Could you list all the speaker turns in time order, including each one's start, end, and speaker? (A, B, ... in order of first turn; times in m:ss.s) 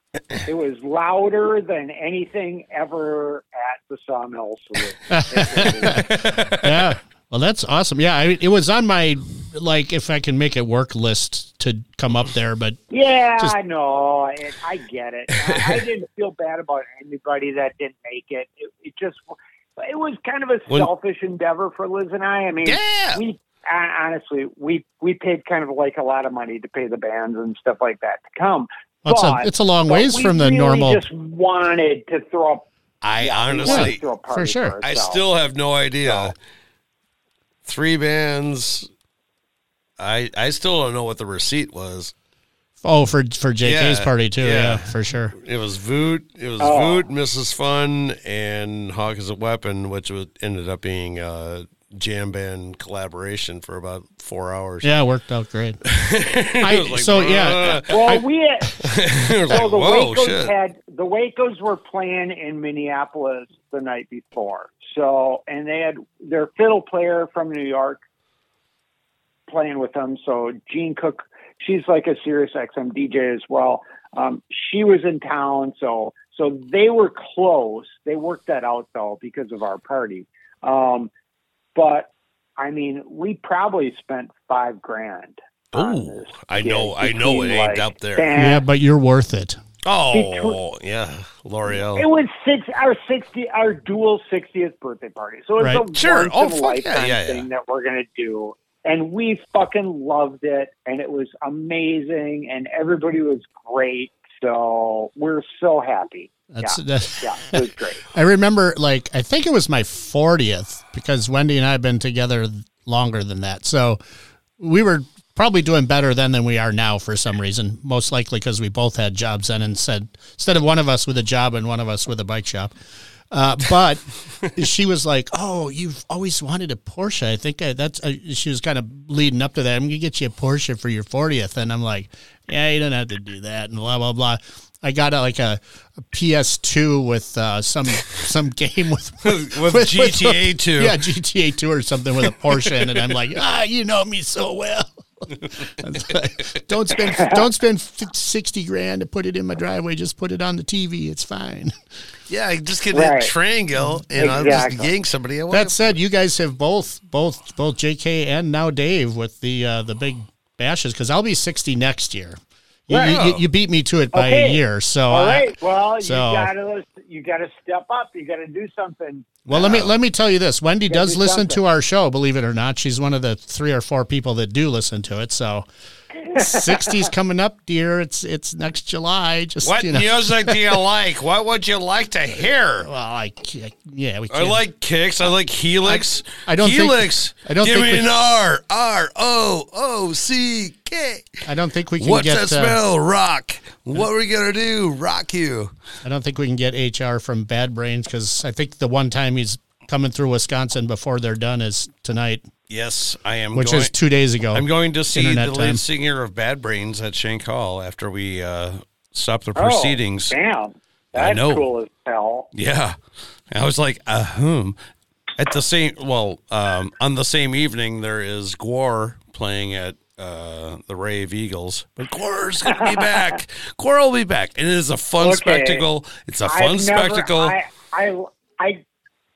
0:00.4-0:06.2 A
0:05.1-0:12.8 B
0:05.8-0:06.9 C
0:12.9-0:32.6 A
0:15.5-0:15.8 C
0:22.6-0:23.2 C
0:29.0-0:31.0 B
0:33.0-0:34.0 C
0:33.2-0:35.2 A
0:33.6-0:34.8 B
0:34.8-0:36.3 C
0:36.0-0:36.3 A
0:37.6-0:38.9 C
0:40.0-0:42.1 C
0:42.8-0:45.3 B
0:43.6-0:54.9 C
0:46.6-0:47.0 A
0:54.8-0:55.8 B
0:55.9-0:58.2 C
0:56.6-0:58.2 B
0:57.9-0:58.9 A
0:58.8-1:00.5 C
0:59.5-1:08.0 A
1:09.5-1:21.1 A
1:21.8-1:28.6 A
1:25.7-1:28.3 C
1:28.3-1:29.6 B
1:29.8-1:32.0 C
1:30.1-1:30.6 A
1:31.8-1:48.0 A
1:35.6-1:35.9 B
1:35.9-1:37.4 C
1:46.5-1:54.0 B
1:54.6-2:02.7 B
2:03.3-2:31.7 B
2:19.2-2:21.0 C
2:22.6-2:23.0 C
2:27.1-2:27.4 A
2:32.3-2:35.9 C
2:32.9-2:33.3 A
2:34.2-2:34.9 A
2:35.5-2:46.5 B
2:42.9-2:43.2 A
2:43.0-2:43.4 C
2:44.1-2:49.4 A
2:49.5-2:55.7 B
2:49.5-2:49.9 C
2:50.9-2:51.6 A
2:56.2-2:57.0 A
2:56.3-3:00.8 B
2:59.6-3:02.9 C
3:02.8-3:04.6 B
3:04.3-3:11.4 C
3:05.8-3:08.1 B
3:11.4-3:12.8 B
3:12.0-3:15.7 C
3:16.0-3:22.5 B
3:22.7-3:23.9 C
3:23.5-3:25.8 B
3:24.5-3:30.3 C
3:29.6-3:32.5 A
3:31.1-3:31.7 C
3:32.5-3:33.0 C
3:33.5-3:34.8 C
3:35.4-3:47.6 C
3:42.6-3:43.3 A
3:45.2-3:45.8 A
3:46.4-3:48.8 A